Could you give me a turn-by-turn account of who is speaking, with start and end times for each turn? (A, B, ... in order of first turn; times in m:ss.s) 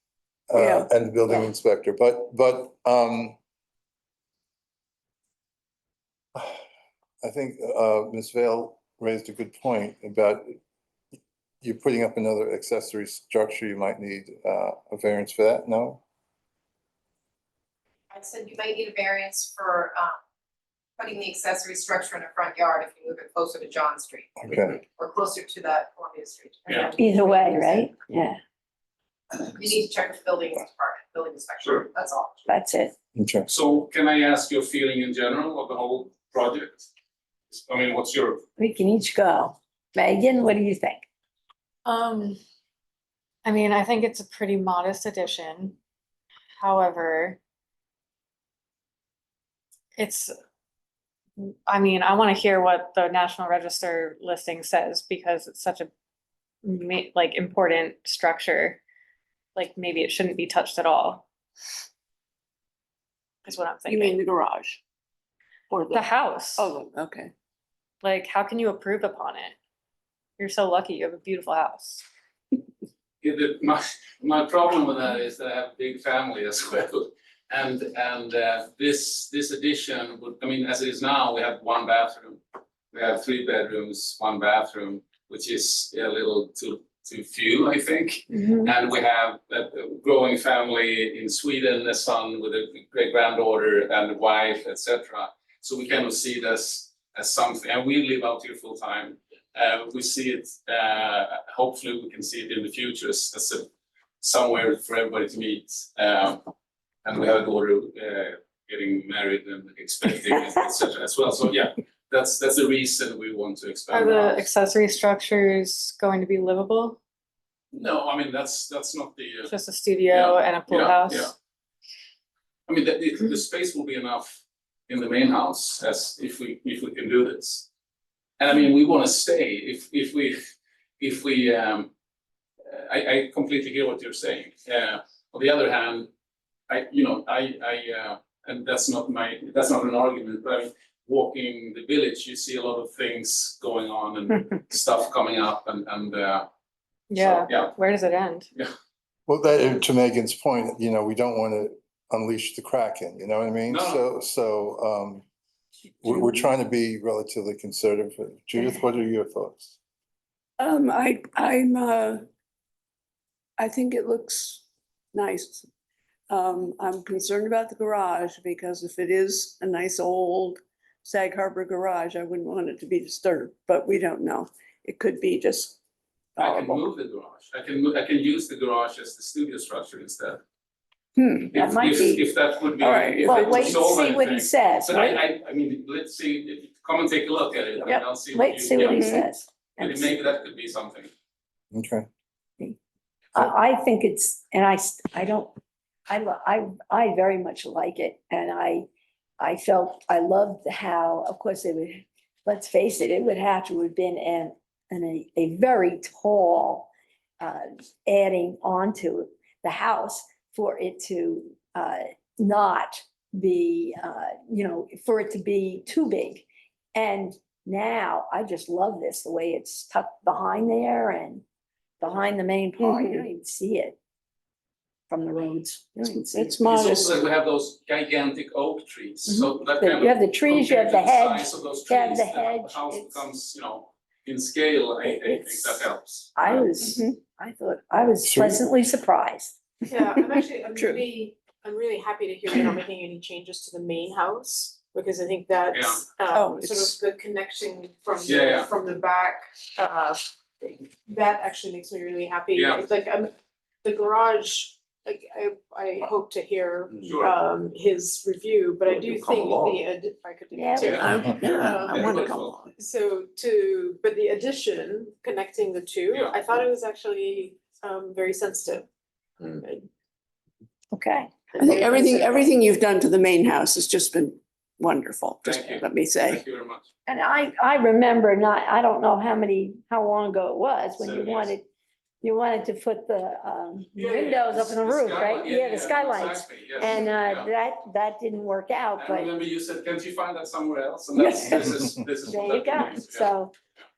0:00.5-0:03.4 A
0:00.5-0:00.9 B
0:06.3-0:06.6 A
0:07.2-0:10.6 A
0:11.6-0:16.0 A
0:18.1-0:20.2 C
0:21.0-0:27.9 C
0:24.4-0:24.8 A
0:26.7-0:26.9 D
0:27.0-0:28.4 E
0:29.3-0:32.4 C
0:31.6-0:31.9 D
0:32.5-0:32.9 E
0:33.2-0:33.5 A
0:33.5-0:36.8 D
0:37.5-0:38.4 D
0:38.6-0:41.0 E
0:41.9-0:42.4 F
0:43.4-0:45.8 F
0:46.6-0:47.4 F
0:50.0-0:50.3 F
0:51.4-0:55.9 F
0:56.6-0:58.8 F
0:59.6-1:01.2 F
1:03.4-1:04.2 F
1:03.9-1:04.8 B
1:05.7-1:07.3 B
1:05.9-1:06.7 F
1:08.0-1:09.6 F
1:10.4-1:12.0 F
1:13.2-1:22.4 D
1:22.9-1:43.7 D
1:44.2-1:46.4 D
1:47.0-1:54.5 D
1:53.9-1:57.0 F
1:57.7-1:59.5 D
1:59.4-2:01.3 F
2:00.1-2:01.3 D
2:02.7-2:07.7 D
2:08.4-2:10.4 D
2:11.0-2:11.9 D
2:12.7-2:16.1 D
2:16.7-2:26.5 D
2:27.1-2:28.5 F
2:27.2-2:27.7 D
2:29.3-2:35.2 A
2:33.7-2:34.0 D
2:36.0-2:39.8 A
2:40.6-2:42.2 B
2:43.6-2:44.6 B
2:45.1-2:45.7 B
2:46.3-2:55.8 B
2:56.4-2:56.8 B
2:56.4-3:00.4 D
3:01.2-3:02.0 B
3:01.5-3:09.2 D
3:01.6-3:02.2 E
3:02.8-3:03.9 B
3:03.2-3:05.2 E
3:08.3-3:10.1 E
3:08.8-3:09.3 B
3:09.8-3:11.1 D
3:11.7-3:12.1 A
3:13.3-3:15.5 E
3:16.1-3:18.9 E
3:19.4-3:26.9 E
3:27.4-3:41.4 E
3:42.0-3:44.0 E
3:42.8-3:43.2 B
3:45.1-3:46.6 E
3:46.1-3:47.2 B
3:46.6-3:56.7 D
3:49.3-3:53.2 E
3:55.5-3:55.8 E
3:56.4-3:59.6 E
3:56.8-3:57.1 B
3:58.2-3:58.6 A
3:59.9-4:13.3 G
4:00.7-4:01.1 B
4:05.7-4:06.0 D
4:06.3-4:07.0 B
4:08.2-4:08.7 D
4:12.5-4:12.8 D
4:13.8-4:22.2 G
4:17.0-4:17.4 D
4:20.5-4:20.9 E
4:20.8-4:21.2 D
4:20.8-4:22.7 B
4:21.9-4:22.6 D
4:22.8-4:28.8 G
4:26.1-4:26.4 D
4:29.4-4:29.9 G
4:30.9-4:32.2 E
4:31.6-4:36.4 B
4:31.6-4:32.4 G
4:35.4-4:36.9 D
4:37.1-4:41.6 E
4:41.0-4:41.5 D
4:42.2-4:49.3 E
4:44.0-4:47.5 D
4:49.0-4:53.3 D
4:51.1-4:53.5 E